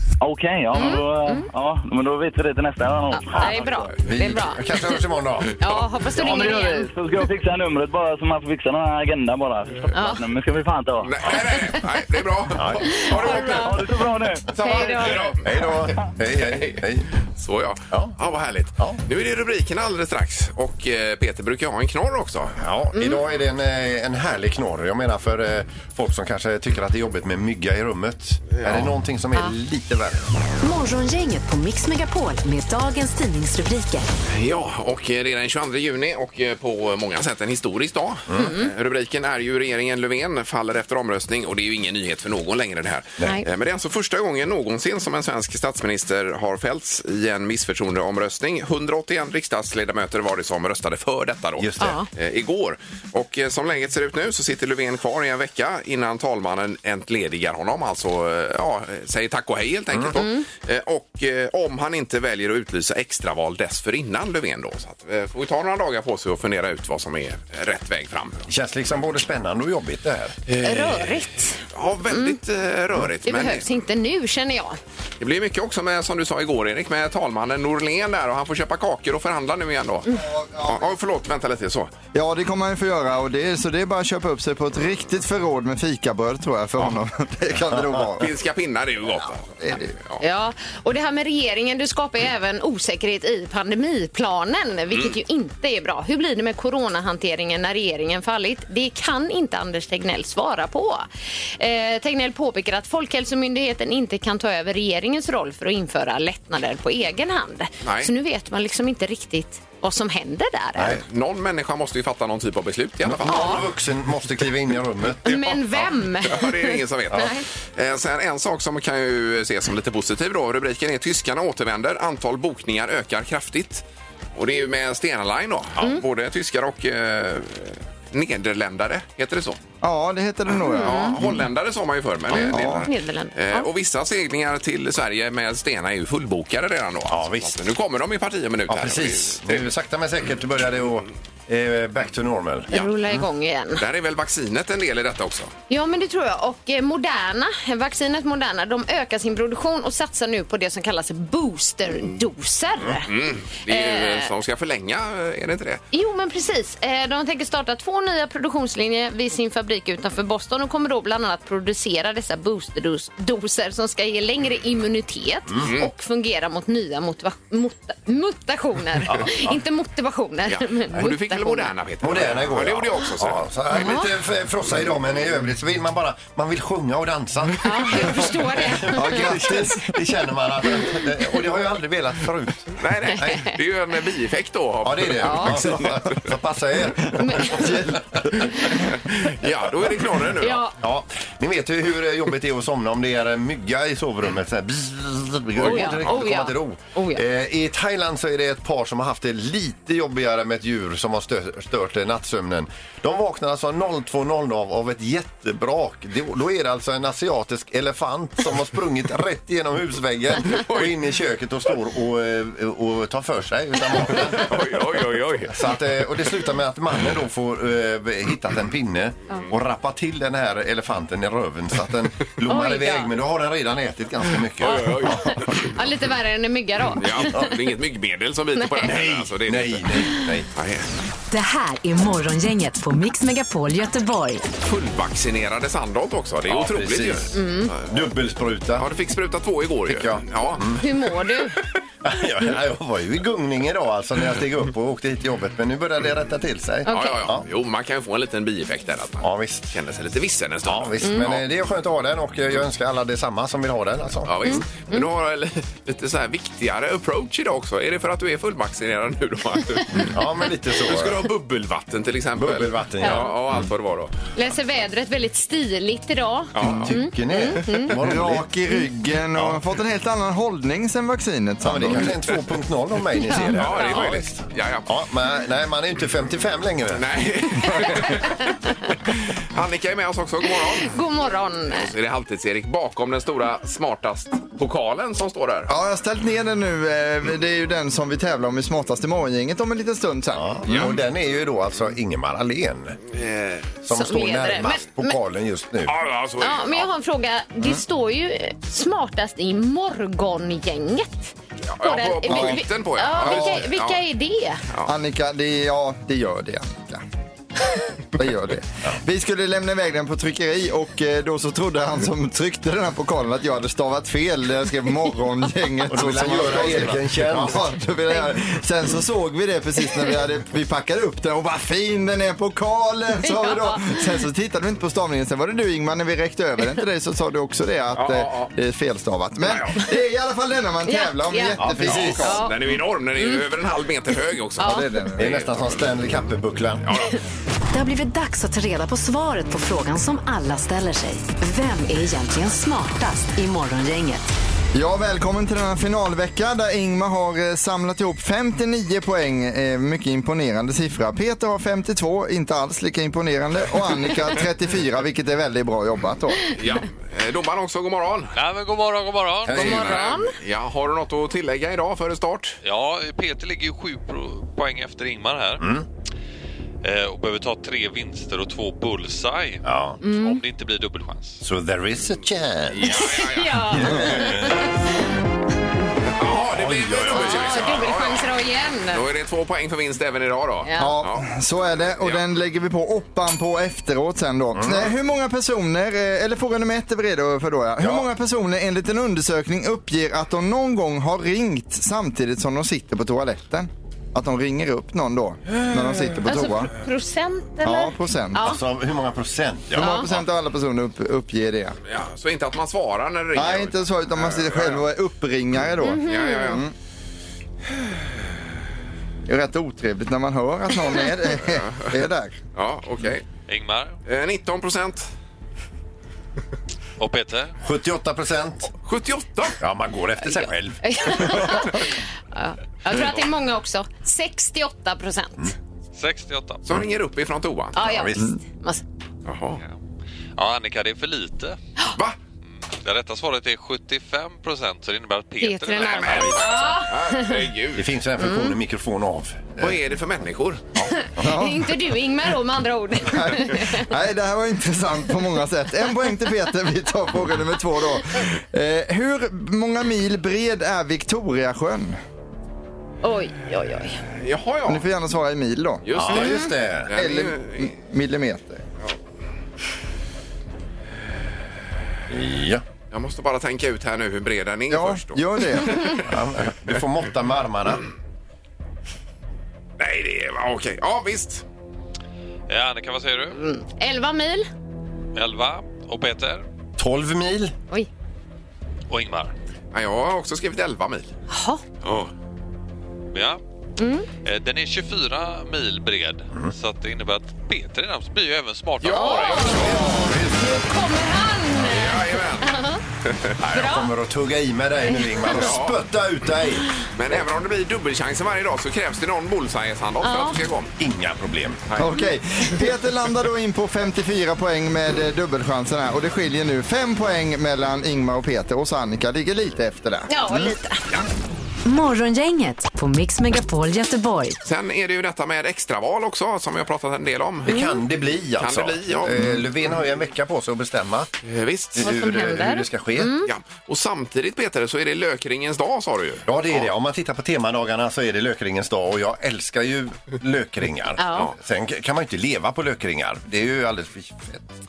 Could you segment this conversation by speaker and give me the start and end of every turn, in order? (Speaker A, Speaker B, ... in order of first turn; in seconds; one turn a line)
Speaker A: 0.2-3.9
Speaker B: 0.7-1.5
Speaker B: 3.1-5.0
Speaker C: 4.0-5.7
Speaker B: 5.6-6.9
Speaker A: 6.1-11.1
Speaker B: 9.9-10.2
Speaker D: 11.0-14.0
Speaker B: 11.3-11.8
Speaker C: 12.6-13.3
Speaker B: 12.8-13.8
Speaker A: 13.4-14.8
Speaker D: 14.5-15.8
Speaker B: 14.6-15.3
Speaker C: 15.4-17.1
Speaker D: 16.5-16.8
Speaker D: 17.4-22.6
Speaker C: 22.6-30.3
Speaker B: 22.9-23.2
Speaker D: 28.6-28.9
Speaker E: 30.6-34.1
Speaker D: 34.3-68.4
Speaker B: 38.4-38.7
Speaker C: 51.6-52.0
Speaker B: 51.8-52.1
Speaker B: 60.1-60.5
Speaker C: 68.5-70.4
Speaker D: 70.5-73.7
Speaker B: 70.6-72.4
Speaker B: 73.2-74.8
Speaker D: 75.2-80.1
Speaker F: 80.1-80.9
Speaker D: 80.7-81.9
Speaker F: 82.1-88.3
Speaker D: 88.2-90.2
Speaker F: 89.6-90.0
Speaker B: 90.2-101.1
Speaker B: 101.6-111.0
Speaker D: 107.8-108.1
Speaker C: 110.8-111.0
Speaker D: 110.9-113.7
Speaker C: 113.0-115.4
Speaker B: 113.3-113.6
Speaker B: 115.2-117.5
Speaker D: 115.3-123.8
Speaker D: 124.3-129.6
Speaker F: 129.8-131.4
Speaker B: 130.6-131.2
Speaker D: 130.8-139.7
Speaker B: 132.3-133.7
Speaker F: 132.4-132.9
Speaker C: 137.1-137.6
Speaker C: 138.7-142.7
Speaker B: 142.7-143.8
Speaker D: 143.8-145.5
Speaker B: 145.7-153.1
Speaker D: 153.0-155.8
Speaker B: 153.7-154.3
Speaker B: 155.9-171.7
Speaker D: 165.6-165.9
Speaker C: 169.1-169.6
Speaker D: 170.5-173.5
Speaker C: 172.0-183.4
Speaker B: 173.8-174.1
Speaker B: 177.6-179.4
Speaker F: 178.9-179.9
Speaker D: 182.8-186.1
Speaker B: 183.2-183.6
Speaker C: 184.8-188.8
Speaker B: 185.2-185.6
Speaker B: 187.2-187.9
Speaker F: 187.6-187.9
Speaker D: 189.1-190.7
Speaker B: 190.4-190.8
Speaker C: 190.8-214.6
Speaker D: 195.6-196.2
Speaker B: 195.6-197.2
Speaker D: 210.5-211.0
Speaker D: 214.1-215.7
Speaker C: 215.5-225.7
Speaker B: 222.5-223.1
Speaker D: 224.6-225.6
Speaker B: 224.7-227.4
Speaker D: 227.0-230.9
Speaker C: 227.2-227.5
Speaker B: 228.6-228.9
Speaker C: 228.8-230.5
Speaker E: 231.3-234.4
Speaker D: 234.6-237.9
Speaker C: 236.5-238.9
Speaker B: 237.3-237.7
Speaker D: 238.8-240.8
Speaker C: 239.9-240.8
Speaker B: 240.8-241.6
Speaker C: 242.0-247.4
Speaker B: 246.9-247.3
Speaker D: 246.9-251.4
Speaker C: 249.2-249.7
Speaker C: 250.7-254.6
Speaker B: 251.0-251.3
Speaker D: 254.2-260.2
Speaker B: 254.4-255.1
Speaker C: 260.0-261.3
Speaker D: 260.8-264.1
Speaker C: 262.4-263.7
Speaker B: 263.0-263.3
Speaker B: 264.4-267.9
Speaker D: 266.6-266.9
Speaker C: 266.6-268.5
Speaker F: 267.9-272.2
Speaker C: 271.6-277.1
Speaker B: 273.3-274.0
Speaker D: 273.4-274.9
Speaker D: 276.9-278.4
Speaker C: 277.6-277.9
Speaker D: 279.4-280.9
Speaker B: 280.8-281.9
Speaker D: 281.7-285.7
Speaker F: 285.7-290.9
Speaker C: 290.3-293.0
Speaker D: 290.7-291.0
Speaker D: 293.1-293.7
Speaker C: 293.8-295.9
Speaker B: 293.9-295.2
Speaker D: 295.9-296.9
Speaker B: 296.4-304.6
Speaker D: 301.7-304.0
Speaker F: 302.3-302.6
Speaker F: 303.2-303.6
Speaker F: 304.9-307.0
Speaker F: 308.1-332.5
Speaker C: 315.9-317.7
Speaker B: 323.2-324.2
Speaker D: 327.9-328.5
Speaker B: 330.9-332.7
Speaker C: 331.6-332.4
Speaker D: 332.2-335.9
Speaker B: 333.2-333.4
Speaker B: 334.6-334.9
Speaker F: 334.6-335.4
Speaker C: 335.2-336.9
Speaker D: 336.9-337.1
Speaker E: 337.7-344.3
Speaker F: 344.7-356.4
Speaker D: 356.6-358.3
Speaker G: 358.4-360.0
Speaker C: 359.4-360.0
Speaker B: 359.5-360.4
Speaker D: 359.6-362.6
Speaker G: 362.6-365.7
Speaker C: 365.6-365.9
Speaker G: 366.8-371.4
Speaker C: 369.6-370.0
Speaker B: 370.0-370.4
Speaker C: 371.4-373.1
Speaker D: 372.7-374.2
Speaker B: 372.8-374.7
Speaker C: 373.7-374.7
Speaker D: 376.2-378.3
Speaker C: 376.5-377.8
Speaker B: 377.1-379.0
Speaker D: 378.9-381.3
Speaker B: 380.6-380.9
Speaker F: 380.8-396.7
Speaker C: 384.6-384.9
Speaker C: 387.8-388.1
Speaker B: 396.2-398.6
Speaker F: 397.6-398.6
Speaker C: 398.4-400.2
Speaker F: 399.7-401.8
Speaker B: 399.8-400.1
Speaker D: 401.9-404.8
Speaker F: 403.4-406.7
Speaker B: 405.8-406.6
Speaker D: 406.0-406.6
Speaker F: 409.3-412.4
Speaker D: 411.5-411.9
Speaker D: 412.6-413.2
Speaker G: 413.5-414.0
Speaker D: 414.1-415.1
Speaker G: 417.0-417.5
Speaker C: 417.6-418.7
Speaker D: 418.9-419.6
Speaker C: 419.6-421.7
Speaker B: 420.2-425.5
Speaker G: 426.0-426.7
Speaker D: 426.6-427.8
Speaker B: 427.8-428.8
Speaker C: 427.8-428.3
Speaker D: 429.3-429.6
Speaker G: 430.4-431.6
Speaker G: 432.7-436.8
Speaker B: 435.4-437.4
Speaker D: 435.8-437.9
Speaker C: 437.7-439.8
Speaker B: 438.2-438.6
Speaker D: 439.6-440.9
Speaker B: 440.9-443.9
Speaker F: 441.2-441.7
Speaker F: 443.1-452.0
Speaker B: 453.0-454.0
Speaker D: 454.2-454.9
Speaker F: 454.7-455.9
Speaker D: 455.9-457.7
Speaker C: 455.9-456.9
Speaker F: 456.9-458.6
Speaker C: 462.1-462.6
Speaker D: 462.9-466.1
Speaker F: 464.7-465.9
Speaker C: 466.1-467.9
Speaker D: 469.8-471.4
Speaker G: 472.5-473.4
Speaker B: 473.4-474.5
Speaker G: 475.1-476.4
Speaker C: 476.8-477.6
Speaker G: 478.9-479.3
Speaker D: 479.7-481.1
Speaker B: 481.3-481.6
Speaker G: 481.9-482.1
Speaker G: 483.1-483.4
Speaker B: 483.8-484.1
Speaker G: 484.2-489.6
Speaker D: 488.8-490.0
Speaker B: 488.9-492.8
Speaker C: 489.6-490.6
Speaker D: 491.6-493.4
Speaker B: 493.5-493.9
Speaker C: 493.5-496.8
Speaker B: 494.9-495.3
Speaker D: 495.3-495.8
Speaker D: 496.9-500.7
Speaker B: 500.0-500.4
Speaker C: 500.8-501.6
Speaker F: 501.8-510.5
Speaker B: 510.1-510.8
Speaker E: 511.6-514.4
Speaker D: 514.4-517.6
Speaker C: 517.5-521.1
Speaker B: 517.5-517.8
Speaker D: 518.4-519.4
Speaker D: 521.2-522.1
Speaker C: 521.7-523.2
Speaker B: 521.8-523.3
Speaker D: 523.2-526.7
Speaker C: 526.3-534.5
Speaker B: 531.0-531.3